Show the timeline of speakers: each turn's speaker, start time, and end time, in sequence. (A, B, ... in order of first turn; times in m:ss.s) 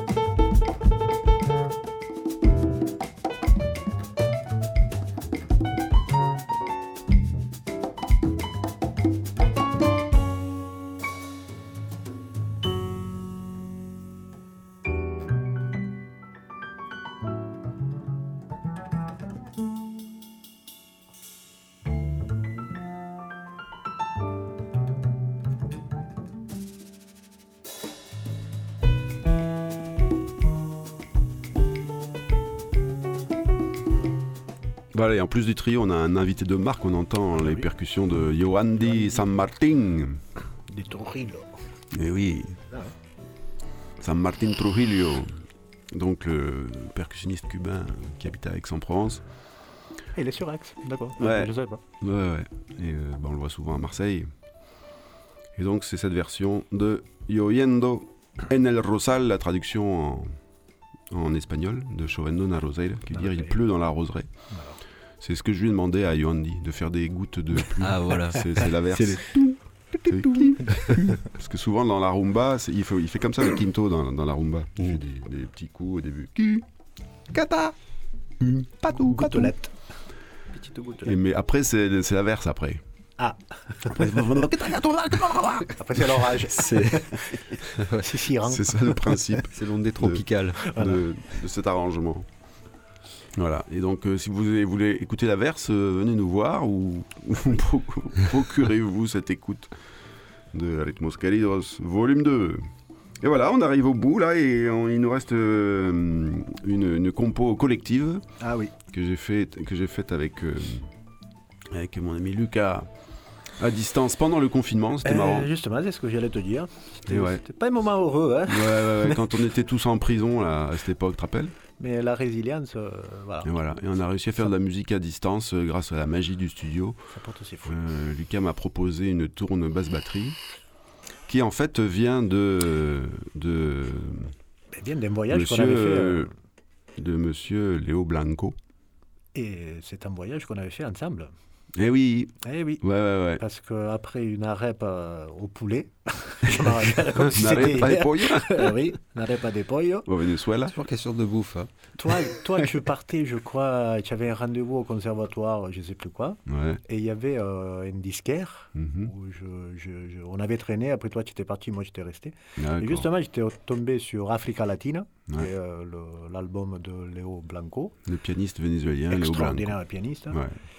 0:34.9-0:40.2 A
0:37.4-0:37.6 B
0:38.8-0:39.3 B
0:40.7-0:41.5 B
0:41.9-0:42.6 A
0:44.0-0:45.4 A
0:45.9-0:49.2 A
0:50.2-0:51.8 B
0:51.2-0:54.3 A
0:55.6-1:00.3 A
1:01.1-1:04.3 A
1:03.1-1:03.6 B
1:04.5-1:04.8 B
1:05.2-1:16.6 A
1:07.8-1:09.2 C
1:17.3-1:17.7 A
1:18.4-1:19.5 A
1:18.9-1:19.8 B
1:20.6-1:21.2 B
1:21.0-1:22.8 A
1:23.2-1:24.4 B
1:23.9-1:25.7 A
1:25.7-1:27.2 B
1:26.5-1:27.0 C
1:27.6-1:28.2 C
1:28.0-1:29.4 B
1:28.5-1:32.3 A
1:29.5-1:30.7 C
1:30.6-1:31.0 B
1:33.4-1:39.7 A
1:40.5-1:42.6 A
1:43.2-1:48.2 A
1:48.4-1:48.7 B
1:48.9-1:50.9 A
1:51.7-1:52.9 A
1:53.6-1:55.5 A
1:55.0-1:59.2 B
1:57.1-1:57.4 A
1:58.5-2:01.5 A
2:01.8-2:03.5 B
2:03.4-2:07.0 A
2:07.1-2:07.8 B
2:07.6-2:10.4 A
2:11.3-2:14.3 A
2:14.7-2:16.3 B
2:15.3-2:16.3 A
2:17.0-2:18.6 A
2:19.3-2:21.3 B
2:21.8-2:23.4 A
2:22.4-2:22.8 B
2:23.4-2:30.1 B
2:27.2-2:28.7 A
2:30.1-2:30.8 A
2:30.7-2:31.7 C
2:32.0-2:48.0 B
2:36.5-2:36.8 A
2:38.8-2:39.1 A
2:42.6-2:43.1 A
2:48.1-2:49.8 A
2:49.1-2:50.4 B
2:50.3-2:50.6 A